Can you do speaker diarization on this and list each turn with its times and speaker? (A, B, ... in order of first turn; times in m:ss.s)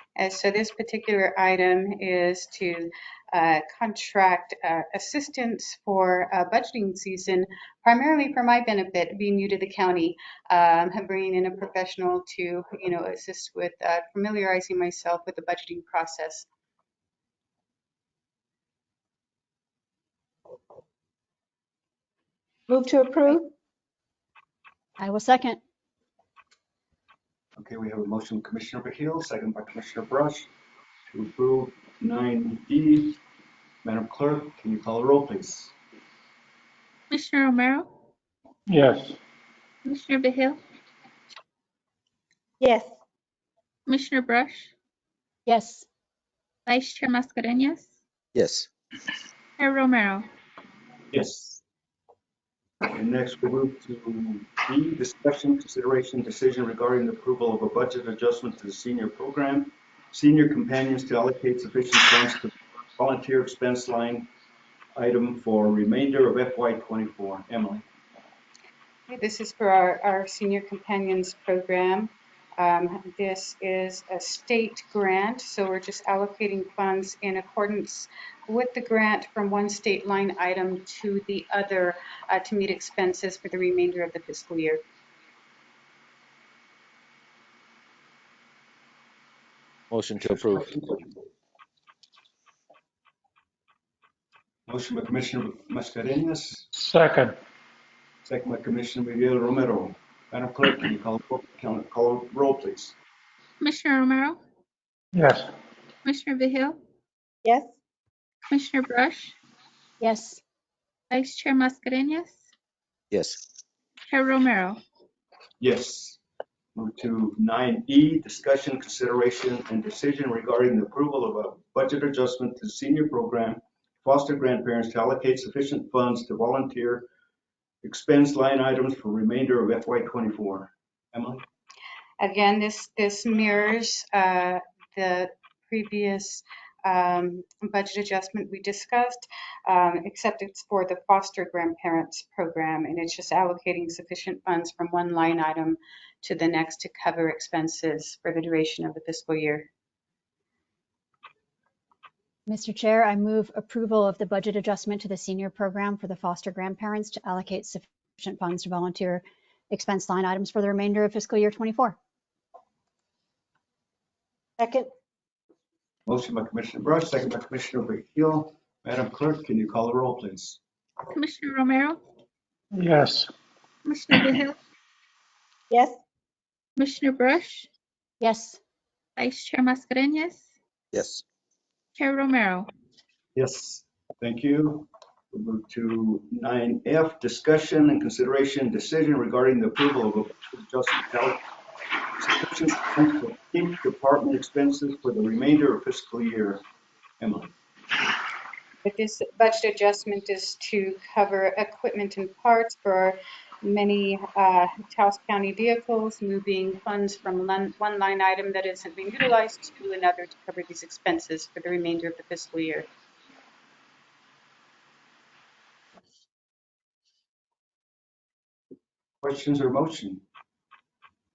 0:00.2-0:16.4 A
0:22.7-0:23.5 B
0:25.0-0:25.6 C
0:27.6-0:30.5 D
0:31.1-0:33.2 D
0:33.8-0:35.7 D
0:37.1-0:37.9 E
0:38.7-0:39.2 F
0:39.8-0:40.6 E
0:42.6-0:42.9 B
0:43.9-0:44.7 E
0:45.4-0:45.8 C
0:46.7-0:47.8 E
0:48.3-0:48.7 G
0:49.6-0:50.3 E
0:51.1-0:51.6 D
0:52.9-1:04.3 D
1:04.9-1:07.8 D
1:09.1-1:24.8 A
1:29.9-1:30.9 G
1:30.2-1:31.1 D
1:34.7-1:36.7 D
1:36.7-1:37.4 F
1:38.2-1:43.0 D
1:43.6-1:44.4 E
1:45.1-1:45.5 F
1:46.0-1:46.8 E
1:47.4-1:47.7 B
1:48.5-1:49.4 E
1:50.0-1:50.4 C
1:51.1-1:52.4 E
1:53.1-1:53.4 G
1:54.1-1:54.8 E
1:55.6-1:56.2 D
1:56.7-2:07.0 D
2:07.8-2:11.4 D
2:12.2-2:29.7 A
2:32.5-2:42.0 C
2:44.6-2:44.9 B
2:46.0-2:50.6 D
2:51.1-2:52.0 E
2:52.7-2:53.3 F
2:53.8-2:54.5 E
2:55.7-2:56.0 B
2:56.8-2:57.7 E
2:58.2-2:58.6 C
2:59.2-3:00.4 E
3:00.9-3:01.2 G
3:02.0-3:02.7 E
3:03.3-3:11.4 D
3:12.1-3:16.6 D
3:17.2-3:17.5 D
3:18.8-3:32.9 A
3:39.2-3:40.2 D